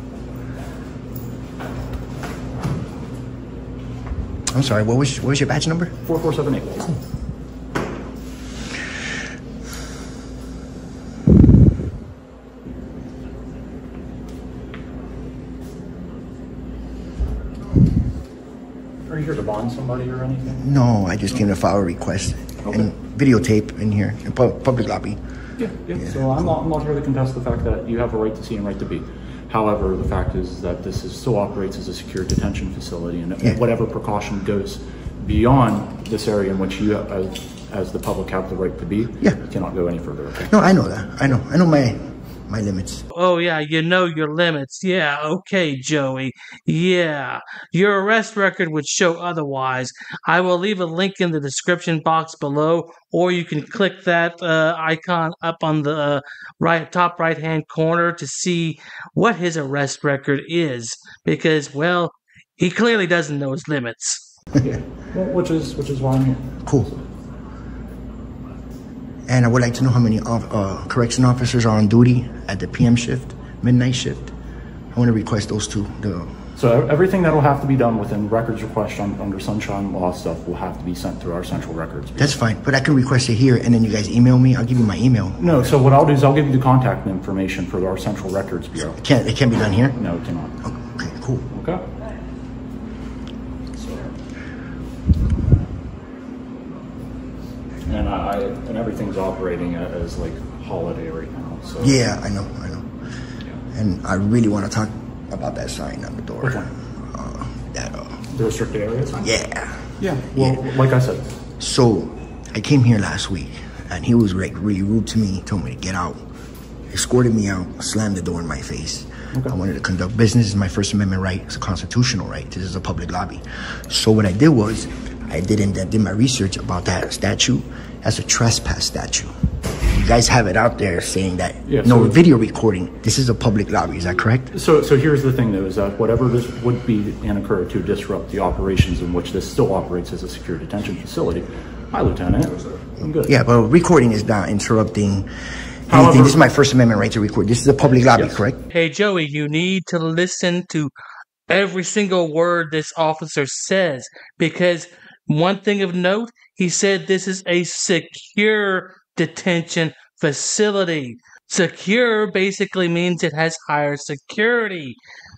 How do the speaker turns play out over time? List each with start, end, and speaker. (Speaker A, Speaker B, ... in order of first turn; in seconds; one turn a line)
Speaker A: 4.5-5.9
Speaker B: 6.0-6.9
Speaker B: 19.1-20.6
Speaker A: 20.5-25.2
Speaker B: 22.6-22.9
Speaker B: 25.6-40.5
Speaker A: 26.0-26.3
Speaker A: 40.5-43.0
Speaker C: 43.1-64.3
Speaker B: 64.6-66.5
Speaker A: 69.3-74.3
Speaker A: 74.9-76.3
Speaker B: 76.6-82.4
Speaker A: 82.2-85.7
Speaker B: 85.4-89.0
Speaker A: 88.9-90.0
Speaker B: 90.0-90.6
Speaker A: 90.7-91.5
Speaker B: 91.5-91.8
Speaker B: 93.8-94.1
Speaker B: 97.9-102.0
Speaker A: 101.8-102.9
Speaker A: 103.7-108.2
Speaker B: 106.4-106.7
Speaker B: 108.3-109.2
Speaker A: 109.2-110.6
Speaker B: 110.0-111.3
Speaker A: 111.6-116.2
Speaker A: 116.9-129.3
Speaker A: 129.9-134.5
Speaker B: 131.7-132.2
Speaker B: 134.5-143.3
Speaker A: 143.2-145.3
Speaker A: 145.9-148.6
Speaker B: 145.9-146.4
Speaker B: 148.1-148.4
Speaker C: 148.7-150.9
Speaker C: 151.5-165.0